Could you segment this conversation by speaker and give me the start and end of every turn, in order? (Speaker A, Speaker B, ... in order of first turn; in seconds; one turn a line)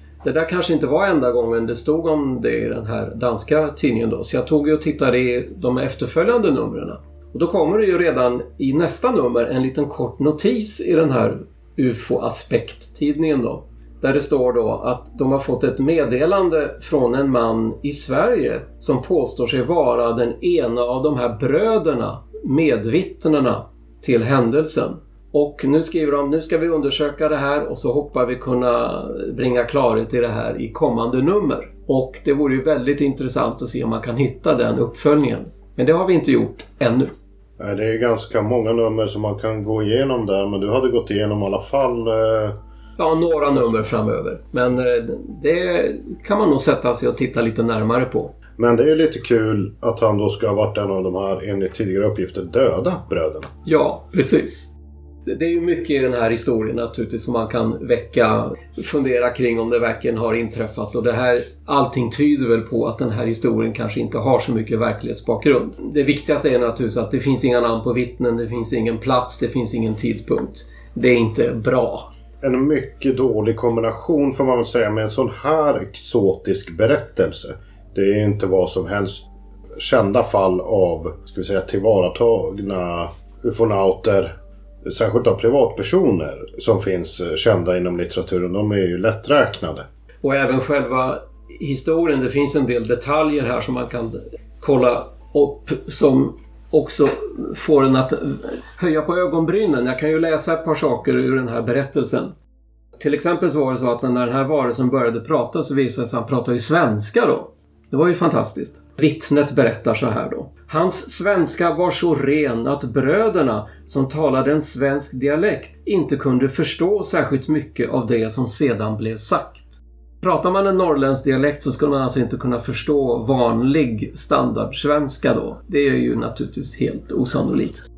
Speaker A: 0.2-37.1
Speaker B: 37.6-42.6
Speaker A: 43.0-48.3
Speaker B: 43.5-43.9
Speaker B: 48.6-53.5
Speaker A: 53.6-54.7
Speaker A: 55.2-72.1
Speaker B: 72.4-84.3
Speaker B: 84.8-89.8
Speaker A: 90.2-102.3
Speaker A: 103.0-127.8